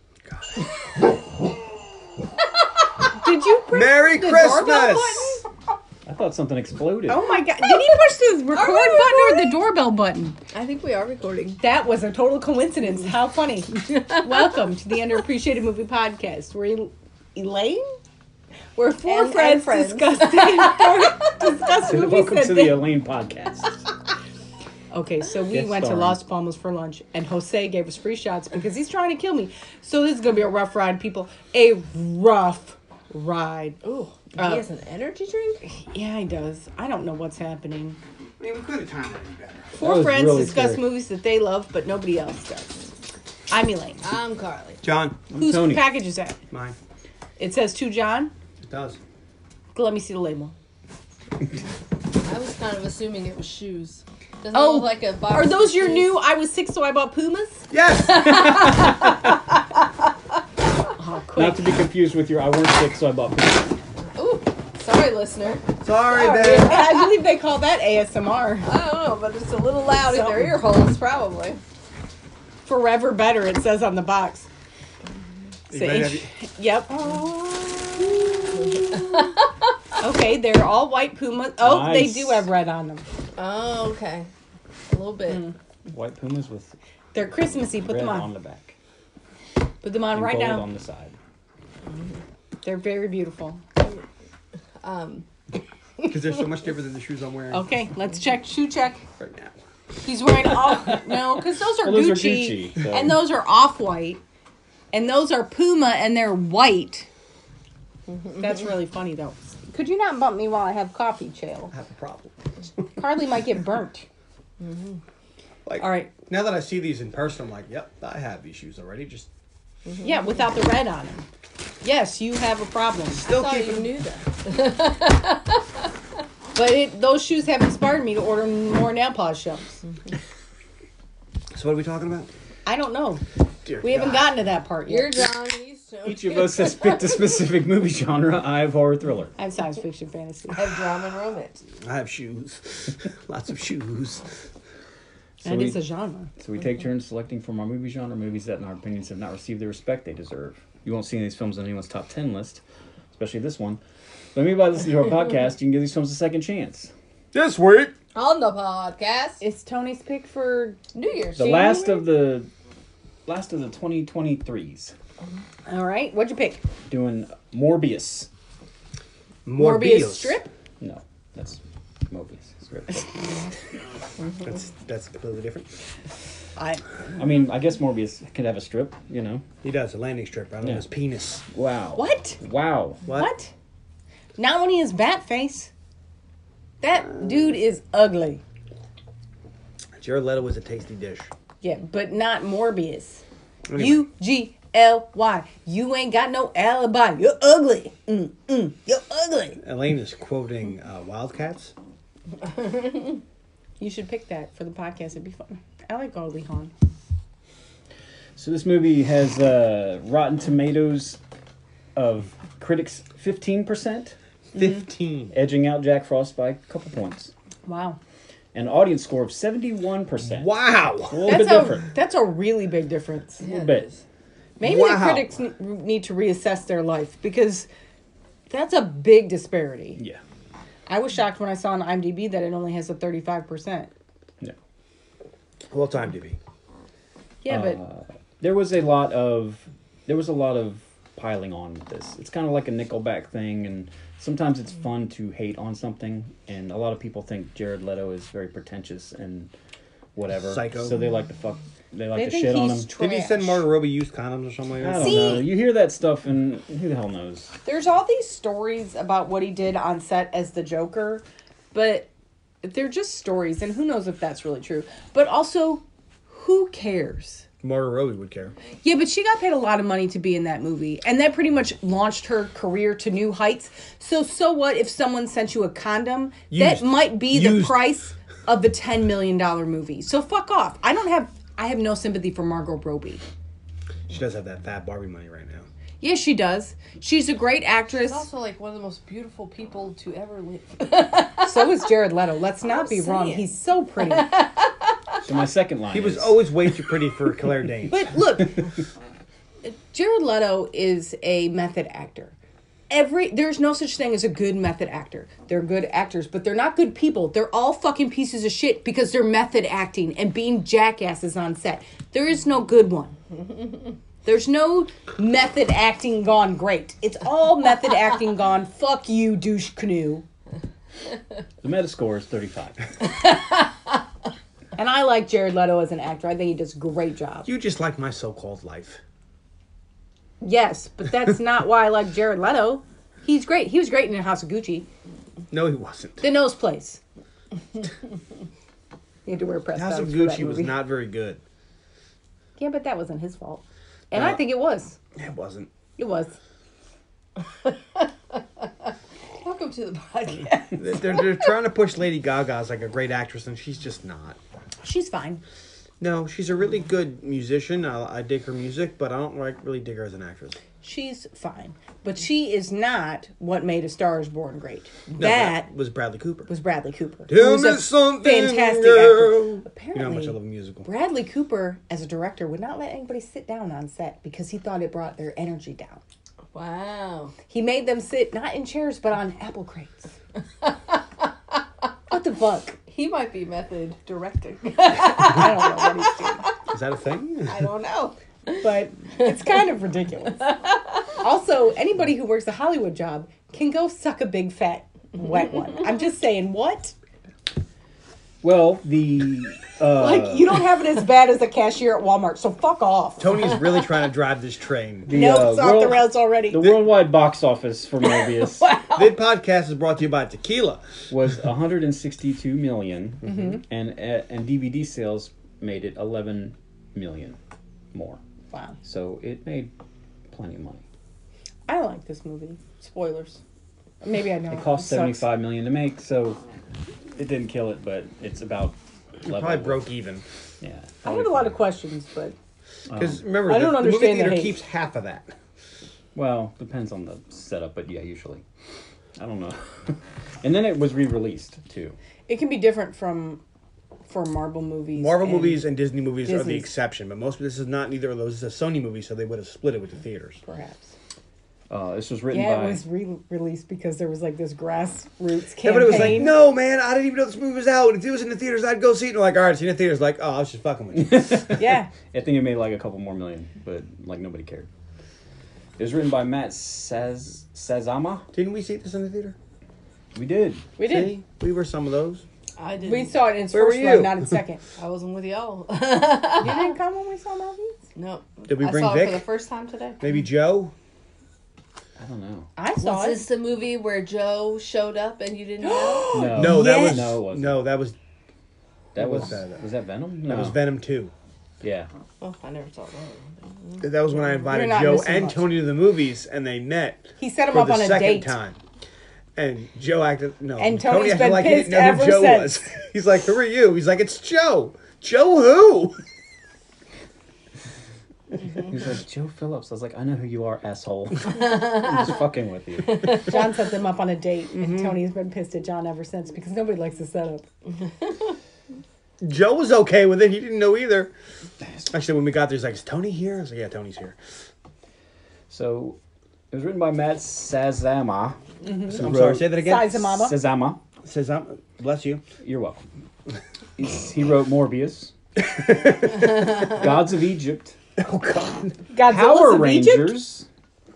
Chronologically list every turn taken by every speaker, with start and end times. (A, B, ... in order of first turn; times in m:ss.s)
0:00.3-0:00.7 A
0:03.1-0:05.4 B
0:03.7-0:05.4 A
0:06.0-0:07.3 C
0:07.1-0:10.4 B
0:08.5-0:09.6 D
0:10.5-0:11.6 D
0:11.6-0:18.0 B
0:13.9-0:14.5 D
0:18.8-0:22.8 B
0:19.0-0:21.3 D
0:21.8-0:23.8 C
0:24.9-0:33.8 B
0:25.5-0:26.2 C
0:33.8-0:35.6 D
0:34.4-0:34.7 B
0:35.8-0:38.0 B
0:38.4-0:39.7 A
0:39.7-0:42.9 B
0:39.8-0:40.8 C
0:43.5-0:44.0 B
0:44.0-0:44.8 D
0:44.8-0:45.2 A
0:45.3-0:46.0 C
0:45.4-0:46.4 B
0:46.5-0:46.8 A
0:47.4-0:48.3 B
0:48.7-0:49.0 A
0:49.7-0:50.5 B
0:52.2-0:56.2 D
0:54.5-0:59.2 B
0:57.7-0:59.0 A
1:01.0-1:01.6 B
1:01.3-1:03.8 C
1:04.2-1:07.2 D
1:05.8-1:06.8 A
1:06.2-1:08.7 B
1:08.6-1:11.6 D
1:10.0-1:10.6 B
1:12.6-1:14.5 B
1:15.7-1:16.3 A
1:15.7-1:18.9 B
1:18.5-1:19.7 D
1:20.0-1:23.0 B
1:21.6-1:22.5 C
1:23.4-1:24.3 D
1:24.9-1:25.4 D
1:25.3-1:25.6 B
1:25.9-1:26.8 C
1:27.1-1:28.3 B
1:27.8-1:28.8 C
1:29.8-1:30.7 B
1:30.1-1:31.1 C
1:31.9-1:32.2 D
1:32.6-1:33.6 B
1:33.8-1:34.0 D
1:34.8-1:35.2 D
1:36.0-1:37.7 A
1:37.5-1:39.0 B
1:39.2-1:39.6 A
1:40.0-1:44.2 B
1:41.1-1:43.2 C
1:44.9-1:47.1 B
1:48.3-1:51.7 B
1:51.7-1:52.3 A
1:53.0-1:54.1 B
1:54.6-1:55.0 D
1:55.7-1:59.3 A
1:55.8-1:56.1 B
1:59.9-2:00.1 D
2:00.0-2:01.2 B
2:01.8-2:03.2 B
2:03.1-2:03.9 A
2:03.2-2:05.6 D
2:06.6-2:09.8 B
2:11.5-2:12.3 A
2:12.7-2:13.2 B
2:13.6-2:14.3 A
2:13.8-2:15.3 B
2:14.8-2:17.3 D
2:16.0-2:19.3 C
2:19.4-2:20.7 B
2:20.5-2:21.7 D
2:21.8-2:24.3 A
2:25.4-2:25.8 C
2:25.4-2:26.3 B
2:26.4-2:32.6 C
2:33.1-2:33.8 C
2:34.3-2:36.9 C
2:37.3-2:37.9 A
2:38.1-2:39.4 D
2:39.4-2:40.8 B
2:40.9-2:41.8 D
2:41.4-2:42.5 C
2:41.4-2:42.0 B
2:43.2-2:44.9 C
2:45.7-2:46.6 B
2:46.9-2:48.3 C
2:49.4-2:50.4 A
2:49.5-2:50.5 B
2:50.8-2:53.5 C
2:54.4-2:55.8 A
2:56.6-2:56.8 B
2:57.2-2:59.4 C
2:59.6-3:01.4 A
3:00.6-3:00.9 C
3:01.5-3:03.0 C
3:01.9-3:02.4 B
3:03.1-3:03.5 B
3:04.4-3:05.7 B
3:06.8-3:08.4 B
3:10.0-3:11.3 A
3:11.6-3:13.2 B
3:13.7-3:14.1 A
3:13.8-3:19.6 B
3:19.6-3:21.7 A
3:23.8-3:26.7 B
3:28.4-3:31.2 C
3:31.9-3:34.2 C
3:34.5-3:34.8 B
3:34.5-3:35.3 A
3:35.3-3:37.3 C
3:37.7-3:38.0 B
3:38.5-3:41.9 C
3:40.2-3:41.3 A
3:41.2-3:43.5 B
3:43.4-3:43.9 D
3:43.4-3:43.9 C
3:44.6-3:47.7 B
3:44.6-3:45.3 A
3:48.5-3:50.0 B
3:50.0-3:50.2 C
3:50.9-3:53.9 B
3:55.7-3:56.4 A
3:57.4-3:57.8 B
3:57.5-4:09.5 C
4:10.2-4:12.9 C
4:10.4-4:11.0 A
4:12.1-4:13.6 B
4:13.0-4:15.5 A
4:14.8-4:17.5 C
4:15.0-4:15.5 B
4:17.6-4:22.1 B
4:22.6-4:27.5 B
4:27.6-4:28.5 A
4:28.8-4:43.2 B
4:36.5-4:37.8 A
4:44.1-4:45.7 A
4:46.0-4:48.3 B
4:48.0-4:51.7 D
4:51.4-4:54.3 B
4:52.6-4:55.2 D
4:55.2-4:56.4 C
4:55.9-4:58.2 A
4:57.9-4:58.7 B
4:59.6-5:02.4 B
5:02.9-5:13.2 B
5:14.2-5:20.2 B
5:21.6-5:22.8 C
5:24.8-5:27.5 B
5:27.5-5:29.0 A
5:30.4-5:34.9 B
5:35.5-5:36.2 A
5:36.2-5:37.0 B
5:39.3-5:40.8 B
5:39.7-5:41.4 A
5:42.6-5:45.0 B
5:44.1-5:44.4 A
5:45.2-5:45.7 A
5:46.0-5:46.4 B
5:47.6-5:48.4 D
5:49.4-5:51.2 D
5:50.8-5:54.4 A
5:54.8-5:55.4 B
5:56.0-6:00.6 A
6:00.8-6:05.7 B
6:05.2-6:06.5 A
6:06.5-6:16.0 B
6:07.3-6:10.9 A
6:16.5-6:17.4 D
6:17.5-6:20.2 B
6:20.6-6:21.0 D
6:22.1-6:22.8 B
6:22.9-6:26.5 D
6:24.7-6:26.4 B
6:26.7-6:27.7 A
6:27.5-6:28.6 D
6:28.6-6:30.5 B
6:31.1-6:37.0 B
6:38.4-6:40.6 C
6:40.0-6:43.6 B
6:43.2-6:45.1 A
6:45.1-6:48.7 C
6:45.1-6:46.8 B
6:48.1-6:49.1 D
6:48.9-6:50.9 A
6:51.1-6:57.4 C
6:53.3-6:53.6 B
6:57.9-6:58.2 C
6:58.5-6:58.8 B
6:58.8-6:59.7 C
7:00.3-7:00.8 C
7:01.7-7:02.6 B
7:02.8-7:03.4 D
7:04.0-7:05.3 B
7:04.5-7:06.4 C
7:07.2-7:09.8 C
7:09.2-7:10.2 A
7:10.6-7:11.6 C
7:11.0-7:12.4 B
7:12.9-7:13.2 C
7:12.9-7:15.3 A
7:13.4-7:14.6 B
7:16.2-7:18.4 C
7:19.2-7:22.0 C
7:22.3-7:23.4 B
7:24.1-7:25.6 B
7:25.0-7:30.4 A
7:26.2-7:26.7 B
7:30.4-7:30.9 B
7:31.7-7:32.8 C
7:32.3-7:36.4 B
7:35.6-7:41.6 A
7:35.9-7:36.2 C
7:40.9-7:44.7 C
7:41.6-7:41.9 B
7:45.8-7:48.3 C
7:48.3-7:49.4 A
7:50.2-7:50.7 C
7:50.8-7:51.2 B
7:50.8-7:52.2 A
7:52.6-7:53.2 D
7:52.8-7:54.6 B
7:53.5-7:54.3 A
7:54.8-7:56.7 D
7:56.4-7:57.8 B
7:58.0-8:00.0 D
7:58.5-7:59.3 A
8:00.0-8:00.7 A
8:02.0-8:02.5 C
8:02.6-8:03.3 B
8:02.8-8:06.2 D
8:05.6-8:07.1 B
8:06.1-8:07.6 C
8:06.3-8:08.0 A
8:09.0-8:09.6 A
8:09.0-8:10.6 C
8:10.3-8:11.1 A
8:11.6-8:11.9 C
8:12.2-8:13.8 D
8:13.8-8:18.6 A
8:14.4-8:15.6 B
8:17.2-8:18.4 B
8:19.4-8:26.0 A
8:20.6-8:22.7 B
8:28.6-8:33.4 C
8:33.1-8:37.5 B
8:34.6-8:34.9 A
8:39.2-8:41.1 A
8:41.8-8:44.2 A
8:45.5-8:46.0 C
8:46.5-8:48.4 C
8:48.6-8:50.4 B
8:48.9-8:50.8 C
8:48.9-8:50.0 A
8:51.0-8:52.2 A
8:52.4-8:52.9 C
8:53.8-8:55.1 C
8:55.4-8:56.3 A
8:56.2-8:57.8 C
8:58.0-8:58.8 A
8:58.9-9:00.3 B
8:59.0-9:00.5 C